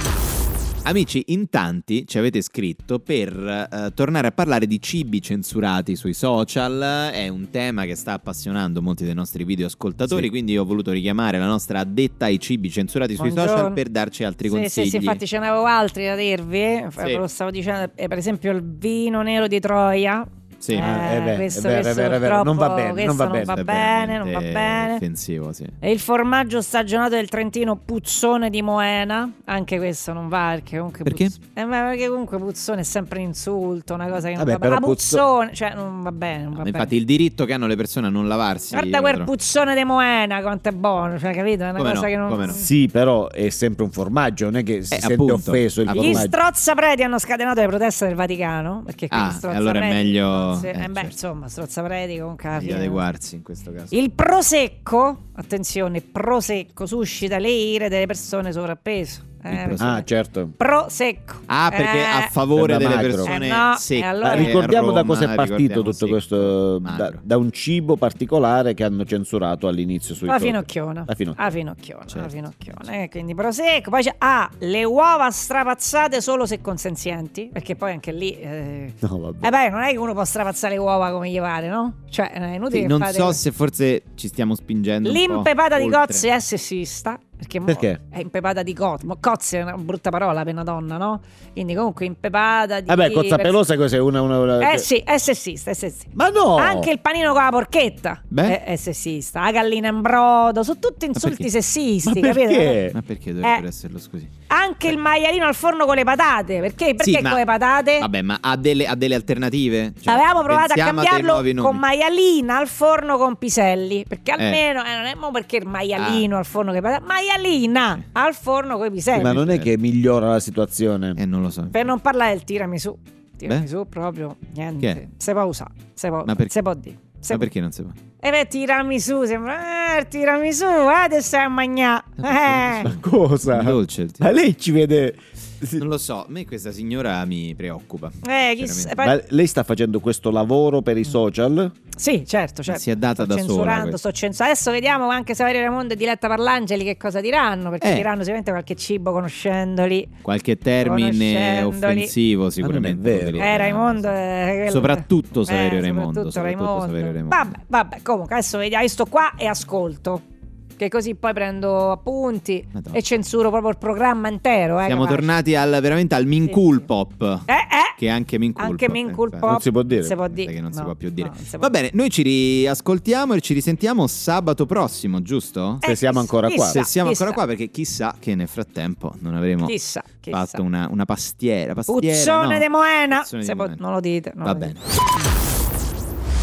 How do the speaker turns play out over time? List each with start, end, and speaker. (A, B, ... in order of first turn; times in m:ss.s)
0:00.8-0:15.2 A
0:13.2-0:13.8 B
0:14.4-0:25.0 B
0:20.6-0:20.9 A
0:20.8-0:23.6 C
0:23.5-0:25.8 A
0:25.8-0:36.9 B
0:31.0-0:31.3 A
0:34.4-0:35.2 C
0:36.5-0:39.3 A
0:38.7-0:42.7 B
0:41.8-0:42.6 A
0:42.5-0:46.3 C
0:44.9-0:46.3 A
0:45.9-0:53.0 B
0:49.1-0:51.1 A
0:52.5-0:53.9 A
0:53.9-1:02.3 B
0:59.5-1:00.0 A
0:59.8-1:00.5 C
1:01.5-1:07.2 A
1:02.5-1:03.4 C
1:03.2-1:04.7 B
1:04.2-1:11.4 C
1:10.3-1:23.4 B
1:12.1-1:12.9 A
1:19.0-1:19.5 C
1:22.7-1:26.3 A
1:25.0-1:33.6 B
1:27.7-1:28.0 C
1:32.9-1:34.9 C
1:34.6-1:42.8 B
1:36.1-1:36.9 C
1:38.3-1:38.6 A
1:41.1-1:41.5 A
1:42.0-1:43.0 C
1:42.9-1:44.3 A
1:44.5-1:48.1 B
1:47.0-1:47.4 A
1:48.0-1:51.8 A
1:50.0-1:59.3 B
1:56.0-1:56.2 A
1:59.1-1:59.7 A
1:59.1-2:01.2 C
2:01.2-2:01.9 A
2:01.7-2:07.5 B
2:06.2-2:06.5 A
2:07.3-2:08.0 A
2:08.2-2:12.9 B
2:12.2-2:14.3 A
2:12.8-2:15.8 C
2:15.8-2:19.0 A
2:18.2-2:19.2 B
2:19.0-2:21.7 C
2:22.0-2:30.1 B
2:22.7-2:24.0 A
2:27.8-2:28.1 A
2:30.2-2:37.5 A
2:30.8-2:32.1 B
2:32.6-2:33.6 C
2:33.4-2:40.2 B
2:40.8-2:45.3 B
2:44.8-2:55.8 A
2:46.4-2:46.8 B
2:47.5-2:48.0 B
2:48.6-2:51.7 B
2:49.4-2:50.2 C
2:55.8-2:57.4 B
2:55.8-2:56.8 C
2:56.7-3:03.8 A
2:59.6-3:00.6 B
3:01.9-3:05.3 B
3:04.4-3:04.8 A